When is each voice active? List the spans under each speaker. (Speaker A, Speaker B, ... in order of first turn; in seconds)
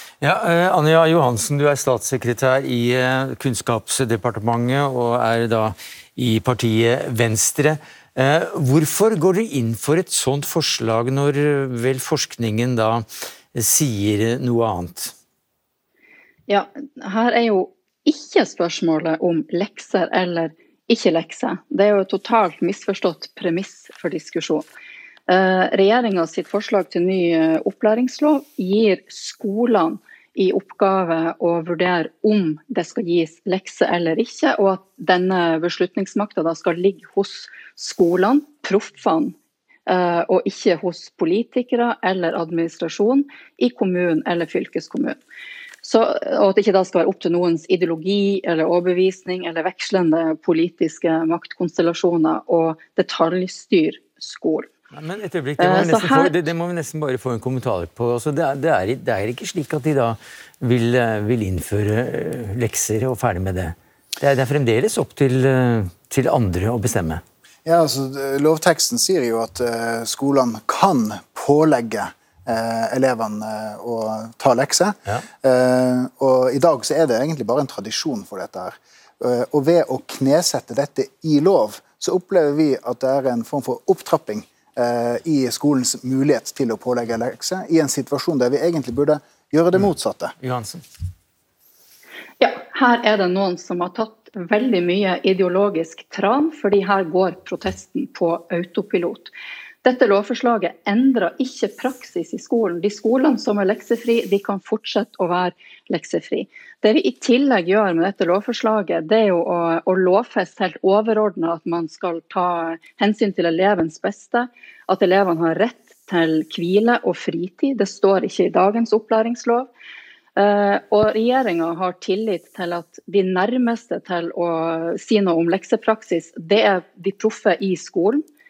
Speaker A: 0.2-15.1, 54.9-67.2, 90.4-90.8
Speaker B: 16.5-24.6, 25.3-39.3, 39.9-45.2, 45.8-54.7, 55.6-56.4, 92.4-99.3, 99.8-119.7, 120.3-128.2
Speaker C: 67.6-90.3